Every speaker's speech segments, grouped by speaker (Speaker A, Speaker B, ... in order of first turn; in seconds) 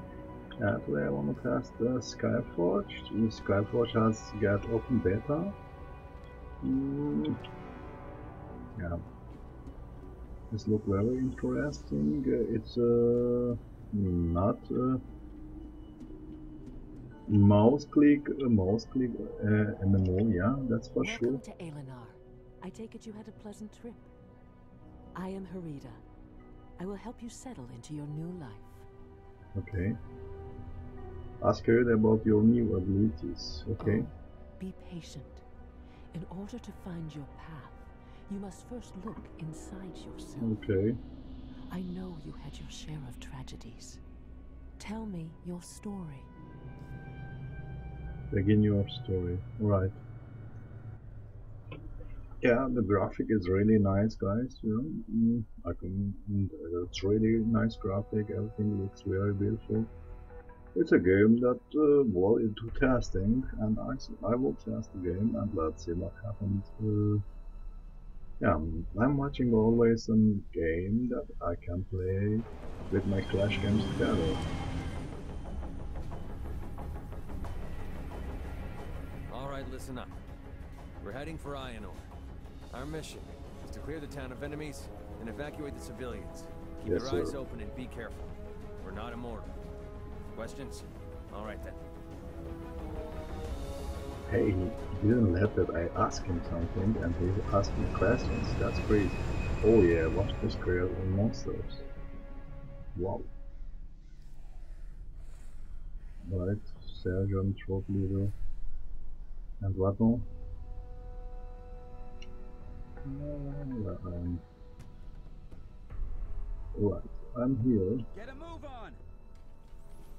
Speaker A: 0.6-5.5, 6.6-7.4, 8.8-9.0, 10.5-15.0, 17.3-21.4, 29.5-30.0, 31.4-34.1, 40.4-41.0, 48.3-50.0, 52.4-59.9, 60.7-67.2, 68.4-74.4, 86.8-87.4, 94.3-101.8, 102.9-103.3, 106.2-108.3, 109.6-110.3, 113.0-114.4, 116.7-118.0
Speaker B: 21.0-24.1, 25.2-26.0, 26.8-28.9, 34.6-35.4, 36.2-40.6, 41.7-44.0, 44.9-46.3
Speaker C: 79.3-80.2, 81.0-82.1, 82.7-89.5, 90.3-91.8